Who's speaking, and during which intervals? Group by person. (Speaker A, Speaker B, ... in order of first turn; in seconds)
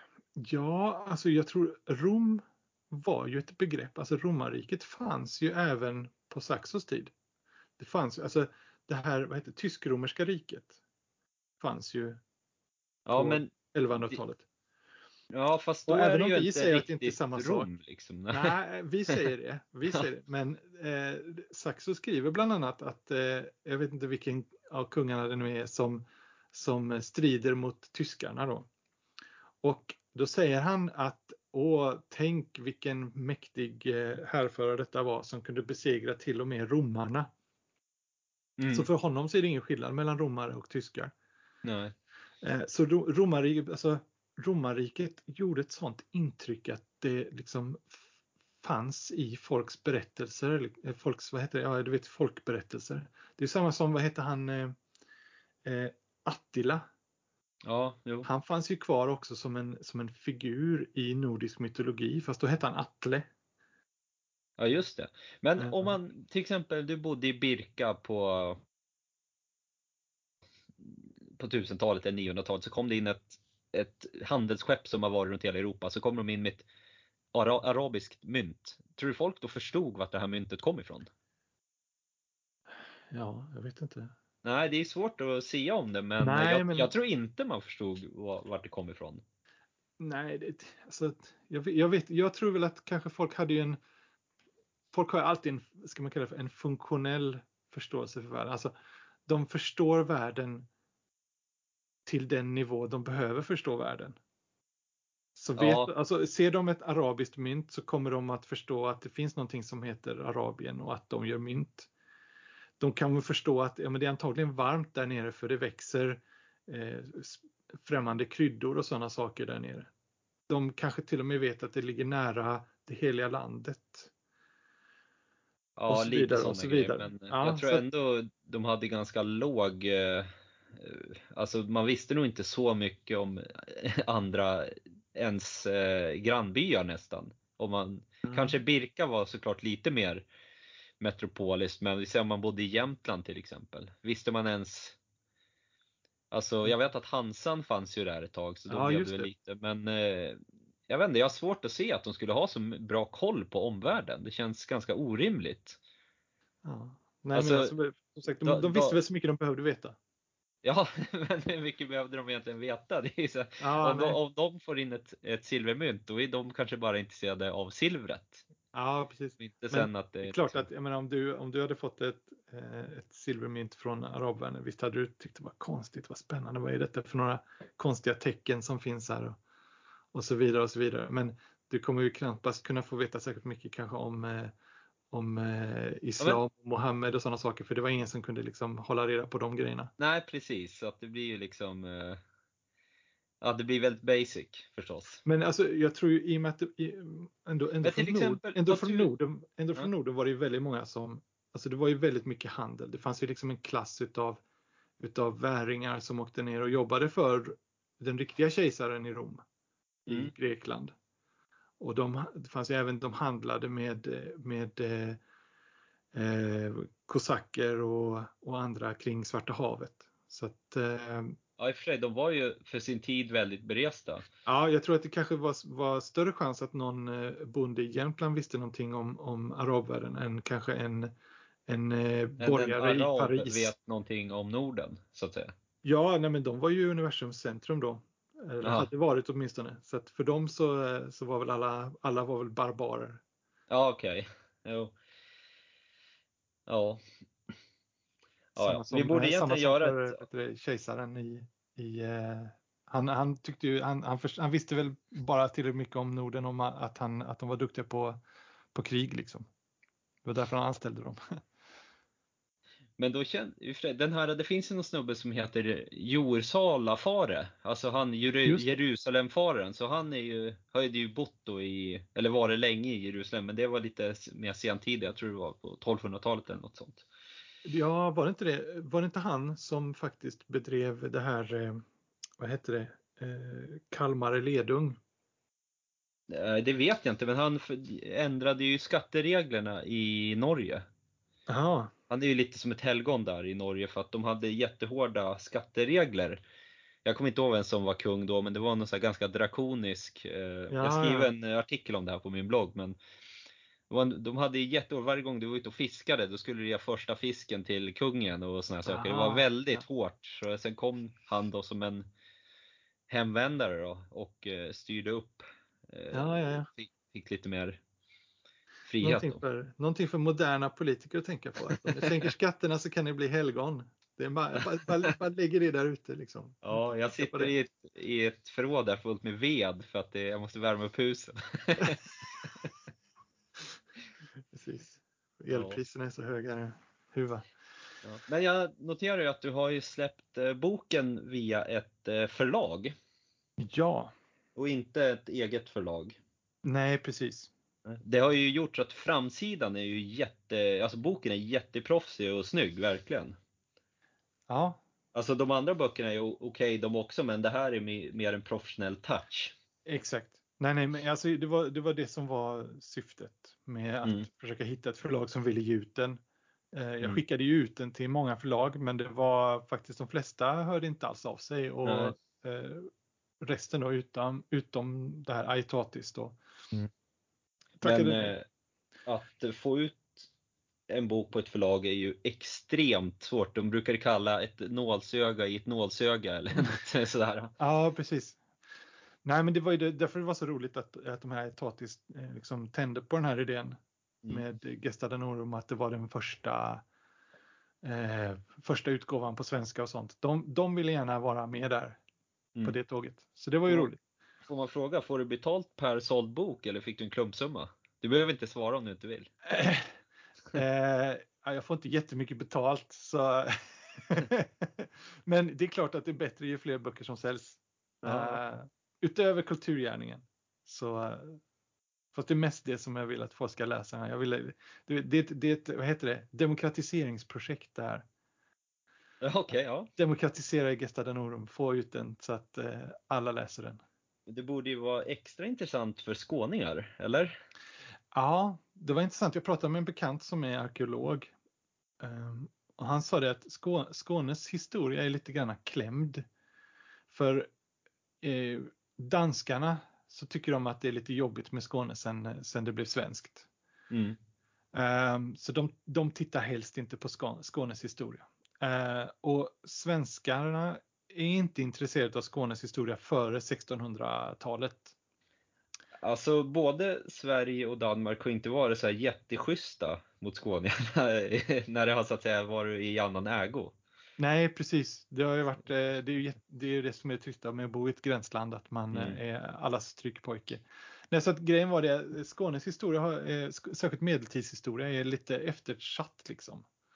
Speaker A: 0.4-7.1, 7.8-10.8, 11.6-12.2, 13.1-14.4, 15.9-17.7, 18.3-28.7, 29.6-37.3, 38.7-41.1, 42.4-48.0, 48.6-54.8, 55.6-56.9, 58.2-63.3, 65.6-66.0, 83.1-84.1, 86.2-86.9, 90.0-93.8, 94.9-98.7, 99.3-100.7, 102.1-104.2, 105.4-111.9, 112.8-119.9, 120.5-124.1, 125.9-127.8, 138.3-138.6, 148.7-149.3, 156.6-160.0, 163.6-164.2, 168.7-179.4, 180.1-184.5, 185.1-189.9, 195.2-204.4, 205.0-209.4, 210.1-210.9, 211.8-215.2, 216.1-221.4, 224.4-231.1, 231.7-233.7, 235.8-243.2, 248.6-258.2, 258.7-259.5, 260.2-261.2, 268.5-268.8, 277.6-281.9, 282.4-285.0, 291.5-291.9, 300.7-301.3, 308.9-309.8, 316.1-316.7, 319.0-327.5, 334.5-337.5, 343.6-344.1, 346.6-347.5, 354.5-354.8, 359.9-366.2, 366.7-372.9, 373.4-376.4, 377.8-378.4, 387.6-388.4, 389.2-396.8, 397.8-402.0, 402.6-404.0, 409.5-409.9, 410.5-421.4, 422.1-428.1, 430.0-433.8, 438.1-441.3, 442.0-446.2, 447.1-447.5, 448.2-453.5, 454.7-464.9, 474.2-486.7
Speaker B: 13.1-14.2, 15.3-18.5, 38.6-38.9, 41.6-41.9, 57.6-58.3, 64.6-68.6, 70.8-76.7, 77.3-81.1, 84.4-89.2, 105.6-105.9, 125.8-140.3, 141.0-145.0, 146.3-155.8, 157.3-157.7, 158.4-159.0, 160.6-168.4, 169.4-170.7, 190.0-192.2, 193.4-195.2, 197.8-199.1, 210.1-210.3, 221.6-224.2, 232.4-235.5, 238.6-238.9, 243.7-244.9, 246.7-247.0, 248.6-250.2, 263.0-277.1, 286.3-290.9, 292.1-296.4, 297.1-303.0, 303.9-312.1, 313.1-317.8, 318.9-319.4, 326.6-332.7, 335.5-335.8, 338.0-342.9, 344.6-346.2, 347.9-353.4, 355.1-359.5, 371.9-372.1, 377.8-378.5, 379.1-380.3, 380.9-387.5, 404.5-409.3, 418.0-418.4, 429.2-429.9, 434.3-437.3, 453.9-454.2, 466.0-473.8, 478.9-479.2